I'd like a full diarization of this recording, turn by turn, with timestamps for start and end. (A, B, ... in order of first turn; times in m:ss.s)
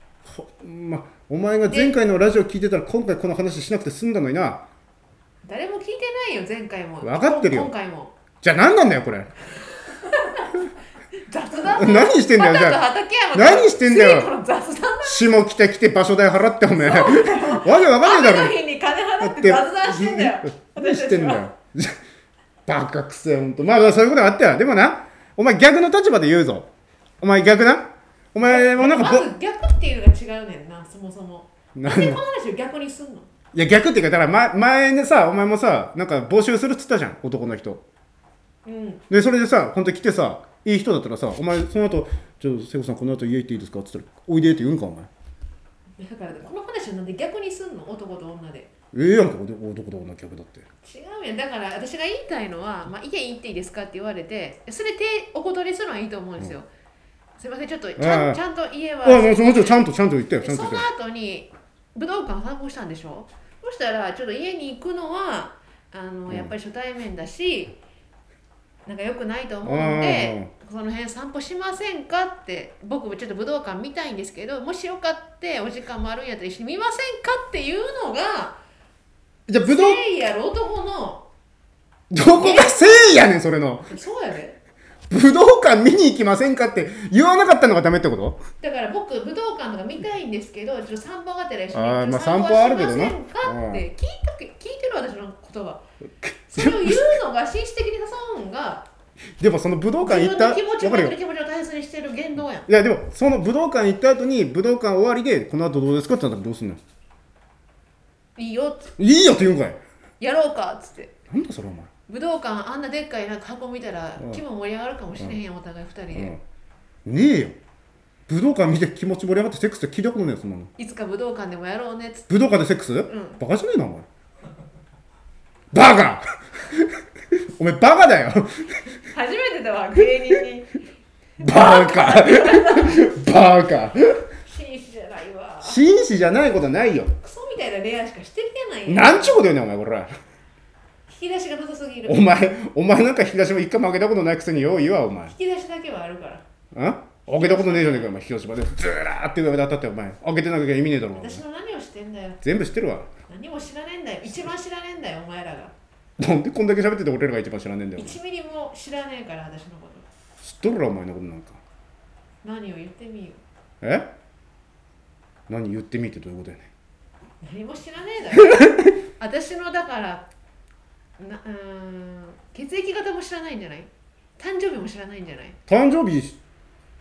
0:00.3-0:04.7 A
0:01.7-0:02.0 B
0:05.4-0:08.2 B
0:07.0-0:07.7 A
0:08.4-0:09.3 A
0:09.8-0:10.6 B
0:11.2-0:15.4 B
0:11.6-0:14.3 A
0:15.0-0:18.6 A
0:16.7-0:21.5 B
0:19.2-0:22.0 A
0:22.7-0:26.7 A
0:27.2-0:29.3 A
0:28.4-0:33.3 B
0:31.8-0:32.2 A
0:33.5-0:37.8 A
0:38.6-0:39.0 B
0:39.1-0:45.1 A
0:46.0-0:48.7 B
0:48.9-0:50.7 A
0:50.8-0:56.7 B
0:57.4-0:59.9 B
0:58.0-0:58.4 A
0:59.0-1:00.9 A
1:00.4-1:07.8 B
1:08.9-1:18.6 B
1:09.6-1:10.5 A
1:19.5-1:20.0 A
1:19.6-1:21.3 B
1:22.1-1:23.9 A
1:22.3-1:23.2 B
1:23.9-1:24.6 B
1:25.1-1:28.4 A
1:28.6-1:35.8 B
1:31.7-1:33.8 A
1:36.2-1:37.2 A
1:36.5-1:38.9 B
1:39.4-1:41.2 A
1:40.0-1:42.7 B
1:42.7-1:46.8 A
1:48.4-1:48.9 B
1:49.0-1:49.8 A
1:50.2-1:51.2 B
1:51.3-1:51.9 A
1:52.1-1:56.4 B
1:56.1-1:56.4 A
1:57.0-1:57.6 A
1:58.3-2:00.7 A
2:00.8-2:02.3 B
2:02.3-2:04.1 A
2:03.1-2:03.4 B
2:05.7-2:08.8 A
2:09.0-2:10.8 B
2:11.4-2:13.0 B
2:11.4-2:14.2 A
2:14.4-2:15.8 B
2:15.6-2:17.1 A
2:17.2-2:19.4 B
2:18.9-2:20.1 A
2:21.1-2:22.3 B
2:22.0-2:25.3 A
2:25.3-2:26.4 B
2:26.7-2:31.4 A
2:27.3-2:28.1 B
2:31.1-2:32.4 B
2:32.4-2:33.1 A
2:33.3-2:35.7 B
2:36.2-2:38.2 A
2:38.0-2:40.1 B
2:40.4-2:41.6 A
2:42.4-2:43.4 B
2:43.8-2:44.1 A
2:45.5-2:46.7 A
2:47.4-2:50.3 B
2:51.2-2:55.6 B
2:55.7-2:56.4 A